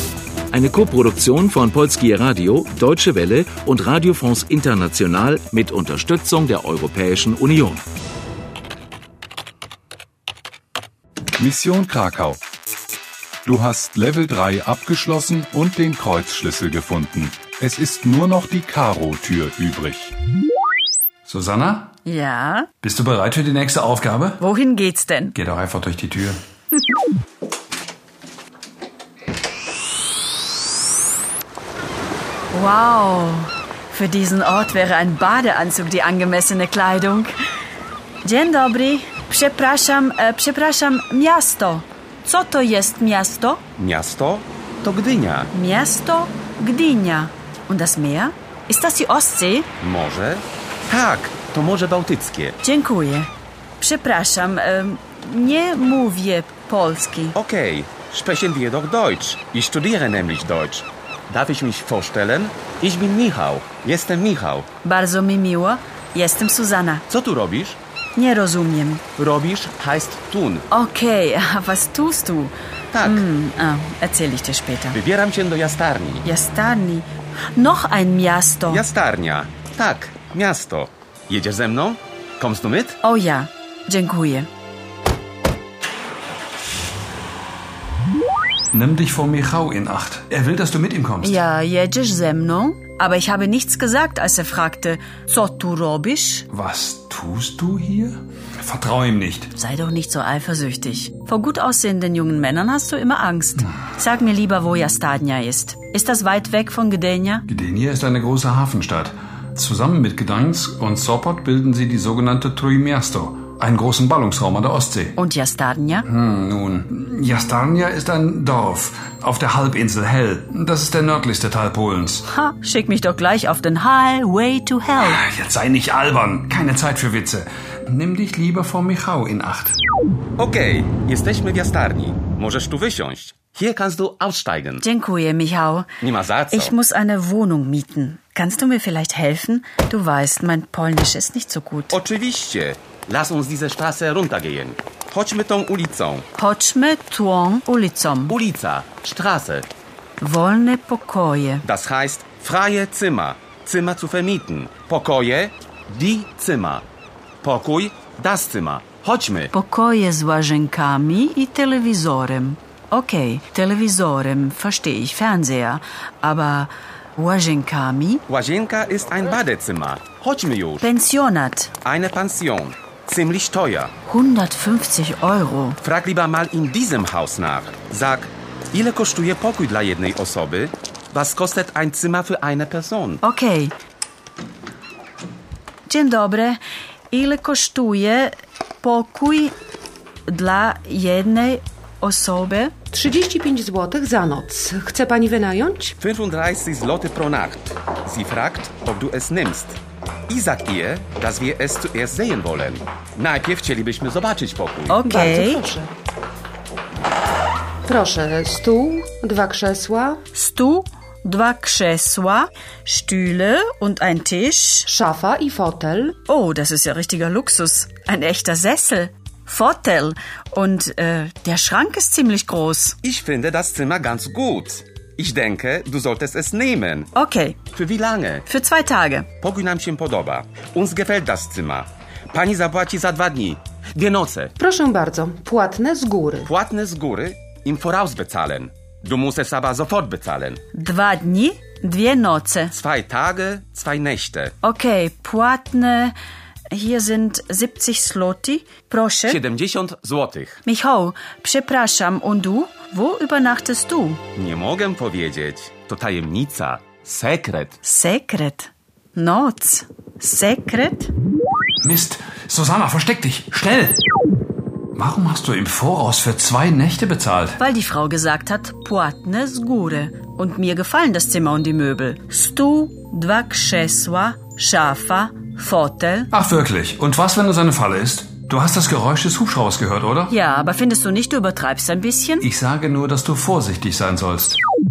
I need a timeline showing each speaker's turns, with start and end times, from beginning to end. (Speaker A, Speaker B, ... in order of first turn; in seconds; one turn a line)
Speaker A: 0.5-7.8
Speaker B: 11.4-12.4
Speaker B: 13.4-20.1
Speaker C: 21.3-21.9
Speaker D: 22.1-22.7
Speaker C: 22.8-24.4
Speaker D: 24.4-25.4
Speaker C: 25.4-26.4
Speaker D: 32.5-37.4
Speaker D: 38.2-43.6
Speaker E: 43.8-45.5
Speaker D: 45.5-49.7
Speaker E: 49.8-52.6
Speaker D: 52.6-57.4
Speaker E: 57.4-64.7
Speaker D: 64.8-67.0
Speaker E: 67.1-67.8
Speaker D: 68.2-69.0
Speaker E: 69.2-70.7
Speaker D: 70.7-75.0
Speaker E: 72.9-73.3
Speaker E: 74.9-76.3
Speaker D: 76.2-78.8
Speaker E: 78.7-83.0
Speaker D: 83.0-84.5
Speaker C: 88.7-91.4
Speaker D: 91.2-96.5
Speaker C: 96.5-99.5
Speaker D: 99.5-107.5
Speaker C: 107.5-115.2
Speaker D: 115.2-116.1
Speaker C: 116.1-122.2
Speaker D: 122.3-125.2
Speaker C: 125.0-129.8
Speaker E: 130.4-134.8
Speaker D: 134.8-135.9
Speaker E: 136.0-136.8
Speaker D: 136.5-142.0
Speaker E: 141.9-146.3
Speaker D: 146.4-148.4
Speaker E: 148.3-149.7
Speaker D: 150.2-151.6
Speaker E: 151.6-156.8
Speaker E: 157.4-159.5
Speaker D: 159.5-168.2
Speaker E: 168.3-170.9
Speaker D: 170.8-171.7
Speaker E: 171.8-173.9
Speaker D: 174.1-175.8
Speaker E: 175.8-183.2
Speaker D: 183.2-183.7
Speaker D: 185.9-186.6
Speaker D: 187.1-189.6
Speaker D: 190.3-192.7
Speaker F: 192.9-195.9
Speaker E: 196.0-205.0
Speaker D: 204.9-205.7
Speaker F: 205.0-205.9
Speaker F: 207.9-210.2
Speaker D: 210.3-214.9
Speaker F: 214.9-216.2
Speaker D: 216.3-223.0
Speaker E: 223.0-227.1
Speaker D: 227.2-227.6
Speaker E: 227.7-228.5
Speaker D: 228.5-229.3
Speaker E: 229.4-234.6
Speaker F: 234.6-236.5
Speaker E: 236.4-240.6
Speaker D: 240.7-242.7
Speaker E: 242.7-244.5
Speaker D: 244.6-246.1
Speaker D: 246.7-249.4
Speaker E: 249.3-250.6
Speaker D: 250.7-254.2
Speaker E: 254.4-257.8
Speaker D: 257.8-261.1
Speaker C: 261.8-264.0
Speaker C: 265.0-267.6
Speaker D: 267.6-276.3
Speaker C: 276.3-280.3
Speaker D: 280.3-282.5
Speaker C: 282.4-284.6